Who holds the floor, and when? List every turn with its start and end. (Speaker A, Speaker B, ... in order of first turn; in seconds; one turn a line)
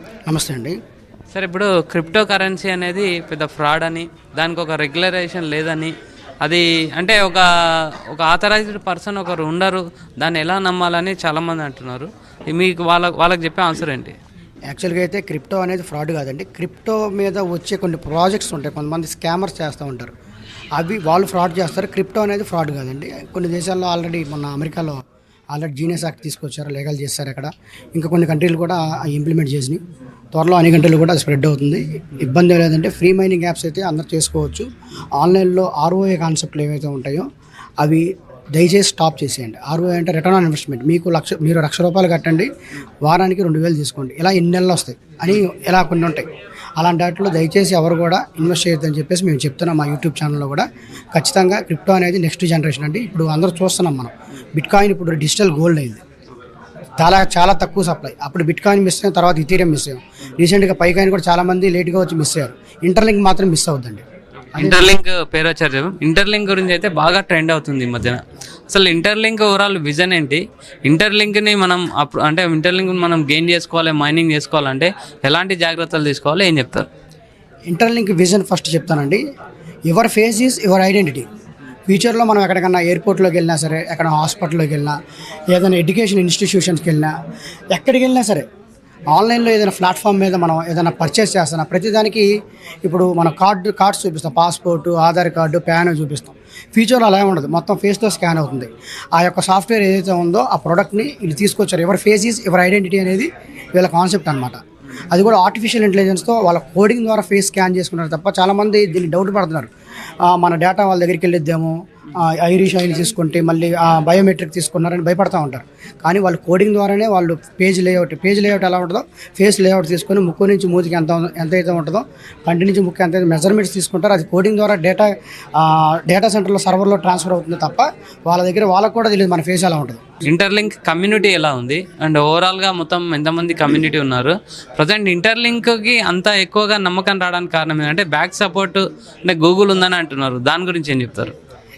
Speaker A: 0.3-0.8
Speaker B: 1.3-7.5
Speaker B: 8.1-14.2
Speaker A: 14.7-20.1
Speaker A: 20.8-25.0
Speaker A: 25.5-29.8
Speaker A: 30.3-37.3
Speaker A: 37.8-42.5
Speaker A: 43.0-56.0
Speaker A: 57.0-64.0
Speaker A: 64.6-64.9
Speaker B: 64.6-76.9
Speaker A: 77.7-79.2
Speaker A: 79.9-81.2
Speaker A: 81.9-85.0
Speaker A: 85.5-87.1
Speaker A: 87.7-88.4
Speaker A: 89.1-92.3
Speaker A: 92.8-104.6
Speaker A: 105.1-109.7
Speaker A: 110.3-130.0
Speaker B: 130.2-141.3